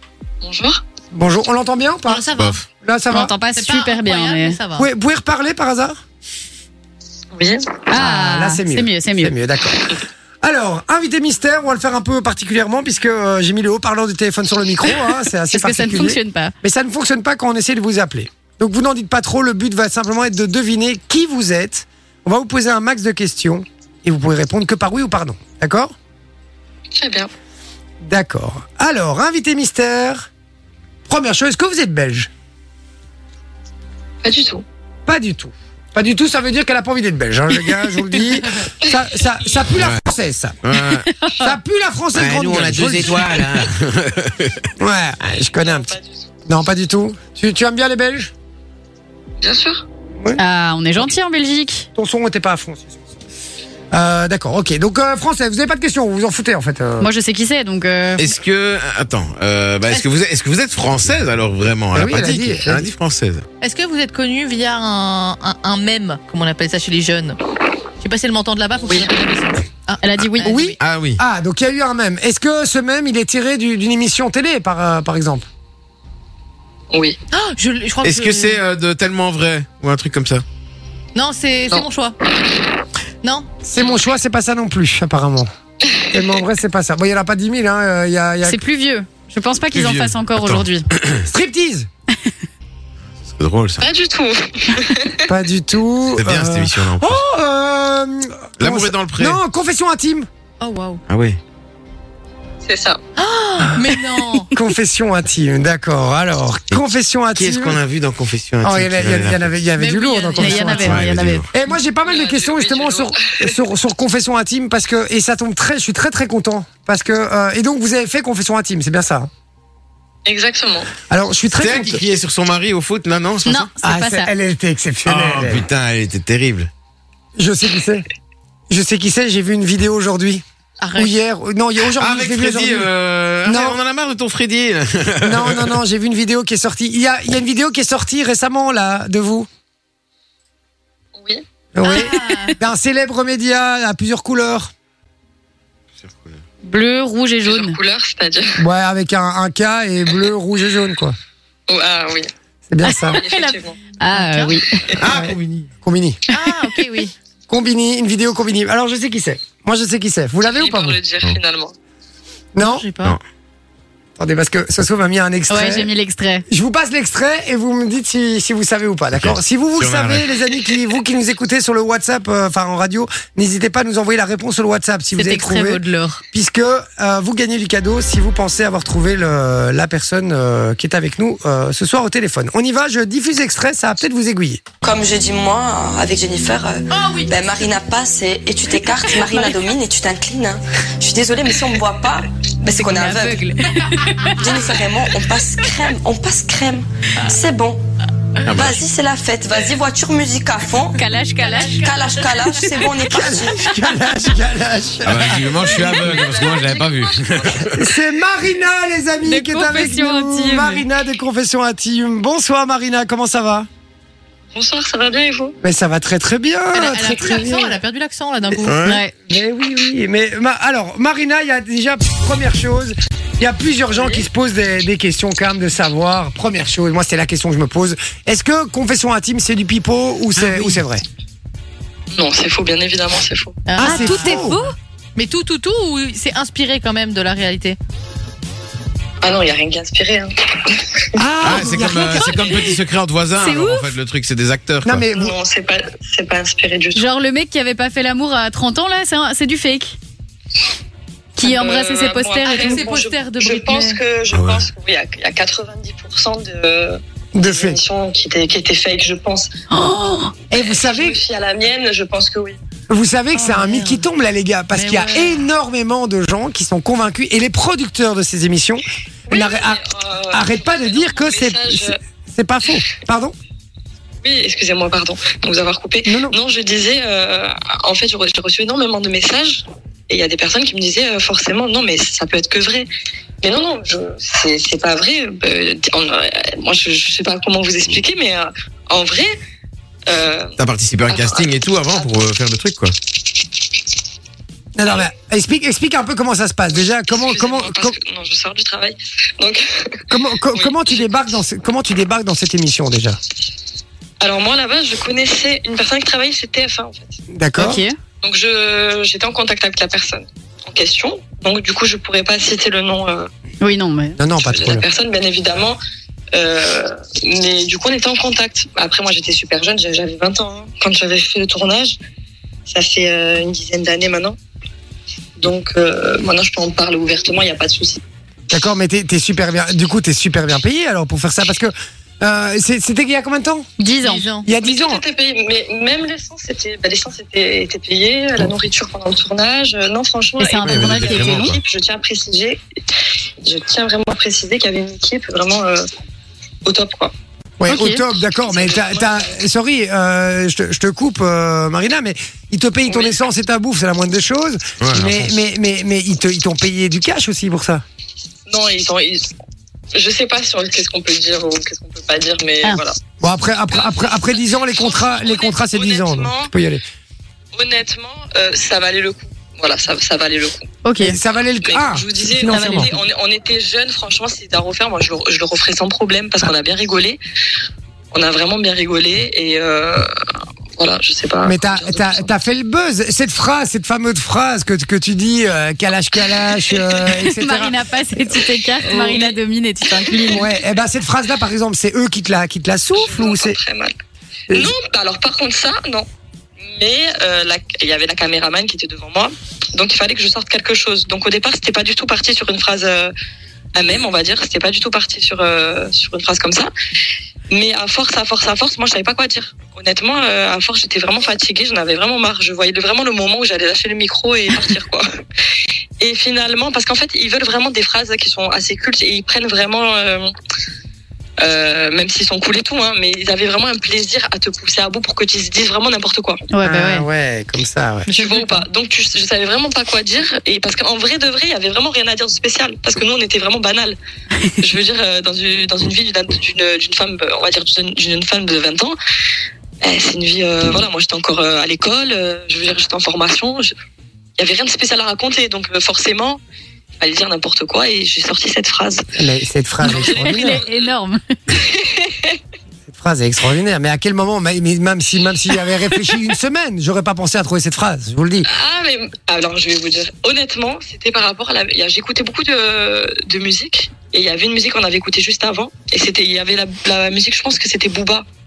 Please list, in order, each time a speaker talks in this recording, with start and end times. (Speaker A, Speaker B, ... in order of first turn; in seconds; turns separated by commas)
Speaker A: 0.4-0.8, Speaker B: 1.1-3.3, Speaker C: 2.1-2.6, Speaker D: 3.1-4.6, Speaker C: 3.5-4.9, Speaker B: 4.8-6.0, Speaker A: 7.3-7.8, Speaker D: 7.9-9.3, Speaker B: 7.9-25.9, Speaker D: 15.5-16.5, Speaker A: 27.0-27.3, Speaker B: 28.0-30.3, Speaker B: 31.1-32.3, Speaker A: 34.2-34.6, Speaker B: 35.1-40.6, Speaker E: 39.8-40.0, Speaker E: 40.6-41.1, Speaker D: 41.0-41.6, Speaker B: 41.4-43.5, Speaker E: 42.1-44.7, Speaker B: 44.8-45.9, Speaker A: 45.6-46.3, Speaker B: 46.5-48.3, Speaker A: 49.4-49.8, Speaker D: 50.4-51.9, Speaker B: 52.0-53.0, Speaker B: 53.9-57.1, Speaker D: 57.0-58.3, Speaker E: 58.2-63.5, Speaker B: 61.9-62.9, Speaker C: 63.6-67.4, Speaker C: 68.0-70.8, Speaker A: 68.8-69.1, Speaker D: 70.0-70.5, Speaker E: 70.2-71.2, Speaker B: 70.4-75.5, Speaker C: 77.3-78.6, Speaker E: 78.0-80.5, Speaker C: 81.2-82.2, Speaker C: 83.2-83.8, Speaker B: 83.6-85.5, Speaker A: 85.9-86.4, Speaker B: 86.1-88.6, Speaker D: 88.4-90.9, Speaker E: 89.7-91.3, Speaker B: 91.3-91.9, Speaker E: 93.2-93.8, Speaker A: 93.8-95.1, Speaker B: 95.3-100.3, Speaker E: 96.2-97.2, Speaker E: 98.6-99.4, Speaker C: 100.6-101.0, Speaker E: 101.1-101.4, Speaker A: 102.7-103.0, Speaker C: 103.2-104.5, Speaker B: 104.5-107.8, Speaker E: 107.3-109.5, Speaker B: 108.6-119.3, Speaker C: 109.8-110.8, Speaker D: 110.4-111.5, Speaker E: 110.7-111.5, Speaker A: 112.0-113.5, Speaker A: 120.3-120.9, Speaker B: 121.1-122.0, Speaker E: 121.5-123.7, Speaker D: 123.5-124.3, Speaker B: 123.8-125.7, Speaker E: 125.1-126.7, Speaker B: 127.4-128.1, Speaker B: 128.7-130.4, Speaker C: 130.8-131.2, Speaker B: 131.0-132.9, Speaker E: 131.8-135.8, Speaker B: 133.4-133.8, Speaker B: 135.2-139.5, Speaker A: 141.2-141.4, Speaker B: 141.7-144.7, Speaker C: 141.8-142.5, Speaker D: 142.0-142.5, Speaker E: 146.0-146.4, Speaker D: 146.6-147.8, Speaker A: 147.4-148.5, Speaker B: 148.6-151.2, Speaker A: 151.7-152.3, Speaker B: 152.7-153.2, Speaker D: 152.8-154.7, Speaker A: 153.1-153.8, Speaker C: 154.1-154.6, Speaker E: 155.0-155.7, Speaker B: 155.1-156.2, Speaker D: 156.3-156.7, Speaker C: 156.3-157.1, Speaker B: 157.5-161.0, Speaker A: 160.4-161.8, Speaker B: 162.6-162.8, Speaker C: 162.6-163.2, Speaker B: 164.2-165.9, Speaker D: 165.5-166.5, Speaker B: 166.5-184.6, Speaker E: 169.1-170.3, Speaker D: 175.2-176.2, Speaker F: 184.8-193.4, Speaker D: 186.9-187.4, Speaker D: 188.8-189.6, Speaker D: 192.8-194.7, Speaker F: 194.4-197.8, Speaker E: 198.5-198.8, Speaker F: 198.5-201.0, Speaker D: 200.9-203.0, Speaker F: 201.6-203.6, Speaker B: 203.1-205.5, Speaker E: 205.1-207.8, Speaker A: 205.4-207.8, Speaker B: 207.8-213.7, Speaker D: 209.2-210.9, Speaker A: 214.5-215.6, Speaker B: 215.6-217.8, Speaker C: 216.7-218.8, Speaker E: 218.6-219.0, Speaker D: 218.8-219.1, Speaker B: 219.3-231.0, Speaker A: 223.9-224.2, Speaker E: 230.4-230.8, Speaker A: 232.1-233.6, Speaker C: 233.7-234.6, Speaker B: 233.8-234.6, Speaker D: 233.8-234.8, Speaker C: 235.2-237.8, Speaker A: 239.2-240.8, Speaker B: 241.2-242.4, Speaker E: 241.4-245.1, Speaker D: 243.4-243.9, Speaker B: 244.8-245.3, Speaker A: 245.1-247.1, Speaker D: 246.9-250.0, Speaker D: 251.4-252.8, Speaker A: 251.4-259.5, Speaker C: 252.4-254.0, Speaker E: 254.3-254.7, Speaker B: 257.3-257.8, Speaker D: 259.7-260.4, Speaker B: 260.5-261.2, Speaker A: 260.5-262.6, Speaker B: 262.9-269.8, Speaker C: 263.3-264.1, Speaker C: 264.7-265.5, Speaker A: 269.3-272.0, Speaker B: 270.3-273.4, Speaker A: 274.2-282.9, Speaker B: 276.1-276.4, Speaker A: 283.4-289.3, Speaker A: 290.1-290.6, Speaker E: 290.6-292.9, Speaker A: 291.1-292.2, Speaker B: 294.8-298.0, Speaker A: 296.7-299.6, Speaker B: 300.1-303.2, Speaker A: 300.5-301.1, Speaker A: 304.2-307.2, Speaker B: 307.3-307.8, Speaker D: 307.6-308.0, Speaker A: 308.2-313.3, Speaker D: 313.6-314.2, Speaker B: 314.2-314.9, Speaker A: 314.4-315.8, Speaker A: 316.4-322.0, Speaker A: 322.7-324.4, Speaker A: 325.4-328.0, Speaker B: 328.5-333.7, Speaker D: 333.8-334.3, Speaker C: 334.0-334.5, Speaker B: 334.4-335.0, Speaker A: 334.6-342.6, Speaker D: 340.4-341.6, Speaker E: 340.6-341.6, Speaker A: 343.4-345.8, Speaker A: 346.6-347.1, Speaker B: 347.6-357.8, Speaker D: 347.7-348.0, Speaker A: 348.5-349.3, Speaker A: 352.9-353.2, Speaker E: 354.8-355.3, Speaker A: 358.5-359.3, Speaker A: 359.9-363.0, Speaker B: 363.2-366.8, Speaker A: 363.7-366.5, Speaker A: 367.5-370.7, Speaker D: 370.8-371.2, Speaker B: 371.0-372.9, Speaker A: 371.6-377.2, Speaker D: 372.5-372.9, Speaker A: 378.1-380.1, Speaker A: 380.8-382.3, Speaker B: 381.4-387.8, Speaker D: 387.1-390.4, Speaker A: 388.8-390.4, Speaker B: 390.3-393.6, Speaker A: 392.9-393.9, Speaker A: 394.5-396.1, Speaker A: 396.7-403.1, Speaker A: 403.8-406.7, Speaker A: 407.5-415.1, Speaker A: 416.0-420.3, Speaker A: 421.4-426.4, Speaker D: 426.5-427.1, Speaker B: 426.6-428.1, Speaker C: 428.1-428.7, Speaker A: 428.1-434.0, Speaker A: 434.6-439.0, Speaker A: 439.8-443.7, Speaker A: 444.4-446.4, Speaker A: 447.0-449.0, Speaker B: 449.2-450.6, Speaker D: 449.8-451.2, Speaker A: 449.9-450.9, Speaker A: 451.5-452.4, Speaker B: 452.9-458.5, Speaker A: 458.5-468.2